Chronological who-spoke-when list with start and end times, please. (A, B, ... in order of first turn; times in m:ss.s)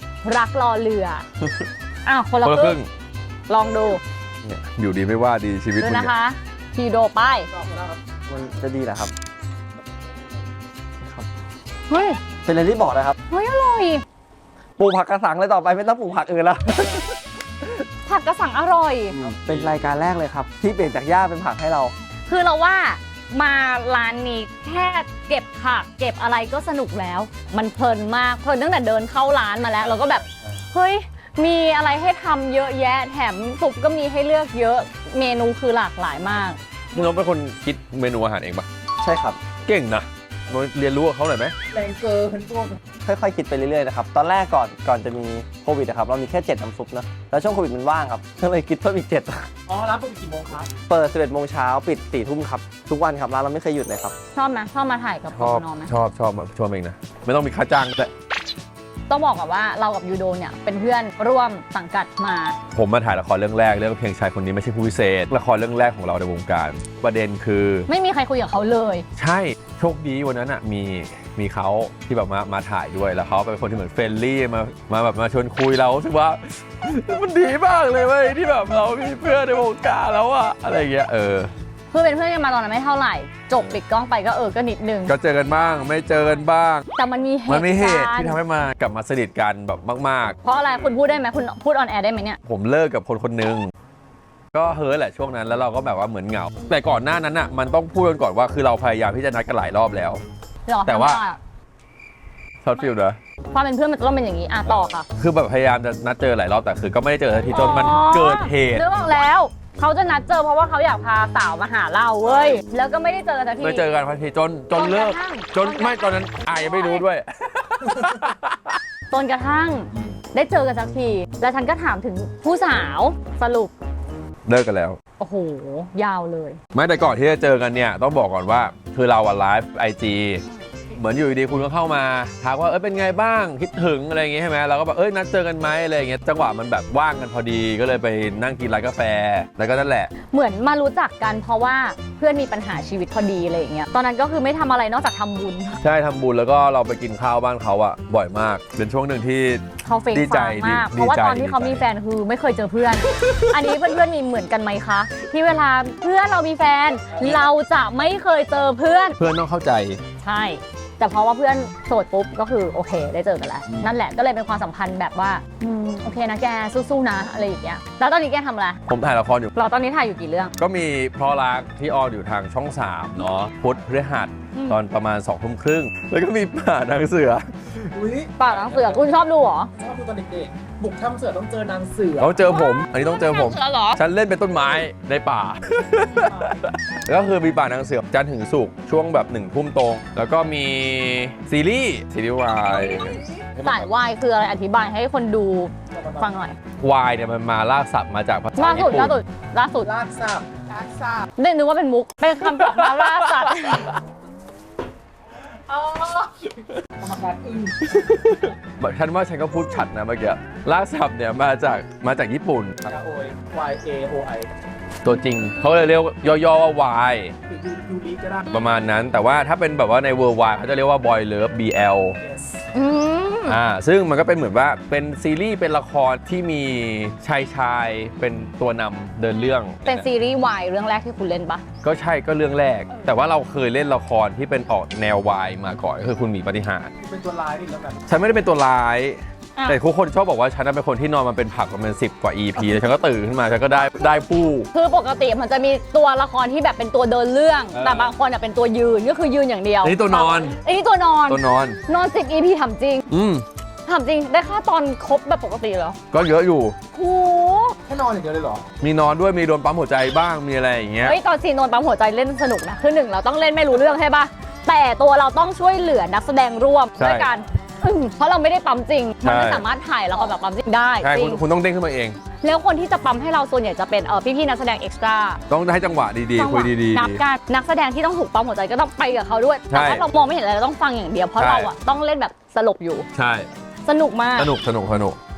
0:00.2-0:01.2 A
0:02.1-0:02.8 A
0:02.4-0:02.9 B
0:03.5-0:04.0 A
0:04.4-0:06.1 B
0:05.8-0:07.5 A
0:07.5-0:08.0 C
0:08.3-0:09.1 D
0:11.9-0:12.2 A
0:12.4-0:13.2 D
0:13.3-0:14.0 A
0:14.8-0:17.7 D
0:18.1-0:19.2 A
0:19.1-0:19.7 B
0:19.3-0:21.9 D
0:22.3-0:36.6 A
0:36.9-0:38.7 B
0:39.0-0:39.4 D
0:39.7-0:41.5 B
0:41.7-0:42.8 C
0:43.0-0:49.5 D
0:49.7-0:50.7 C
0:50.9-0:54.1 D
0:54.4-0:55.9 A
0:55.4-0:58.1 B
0:59.1-1:02.6 A
1:02.8-1:07.9 B
1:07.9-1:09.1 A
1:09.2-1:21.5 B
1:21.9-1:25.1 A
1:25.1-1:26.8 B
1:27.0-1:28.4 A
1:27.5-1:30.4 B
1:30.4-1:32.4 A
1:32.4-1:33.7 B
1:34.5-1:40.2 B
1:40.7-1:41.4 A
1:40.9-1:41.2 B
1:42.6-1:43.2 B
1:43.5-1:45.1 A
1:44.7-1:48.9 B
1:47.5-1:53.9 A
1:52.2-1:52.6 B
1:53.6-1:58.8 B
1:54.7-1:57.0 A
1:59.1-2:03.7 A
2:04.5-2:05.0 B
2:05.2-2:06.6 A
2:06.7-2:10.4 B
2:10.4-2:10.7 A
2:11.0-2:20.1 B
2:20.3-2:25.8 A
2:25.8-2:31.8 B
2:29.8-2:39.2 A
2:33.0-2:33.5 B
2:39.2-2:40.0 B
2:40.2-2:48.8 A
2:48.9-2:49.5 B
2:49.5-2:50.5 A
2:50.6-2:57.4 B
2:54.5-2:54.8 A
2:57.9-2:59.0 C
2:58.4-2:59.7 A
2:59.8-3:02.4 C
3:02.2-3:13.9 B
3:02.5-3:04.0 A
3:06.2-3:06.6 C
3:13.6-3:16.6 A
3:15.9-3:16.3 C
3:16.8-3:19.2 B
3:18.6-3:19.9 A
3:19.8-3:21.2 C
3:21.4-3:23.9 A
3:22.5-3:23.9 B
3:25.7-3:26.5 C
3:27.0-3:27.9 C
3:27.9-3:32.9 B
3:32.9-3:34.5 C
3:35.0-3:37.3 B
3:37.5-3:38.5 C
3:38.5-3:42.2 B
3:42.2-3:42.5 C
3:42.7-3:43.6 A
3:43.5-3:50.1 B
3:49.8-3:51.6 A
3:51.8-3:56.9 B
3:52.9-3:53.2 A
3:57.0-3:58.0 C
3:58.1-4:04.7 B
3:59.6-3:59.8 A
4:04.7-4:13.1 A
4:07.7-4:08.1 B
4:09.8-4:10.6 B
4:11.3-4:11.8 B
4:13.1-4:13.4 B
4:13.9-4:16.0 A
4:16.1-4:16.8 B
4:16.9-4:17.8 A
4:17.8-4:18.6 C
4:18.8-4:21.2 B
4:21.0-4:31.4 A
4:27.0-4:27.3 B
4:29.2-4:29.6 B
4:31.0-4:32.2 B
4:32.4-4:35.4 A
4:35.5-4:37.2 B
4:36.3-4:43.1 A
4:39.7-4:40.1 B
4:41.4-4:41.7 B
4:43.2-4:43.5 B
4:43.8-4:44.5 A
4:44.4-4:45.2 B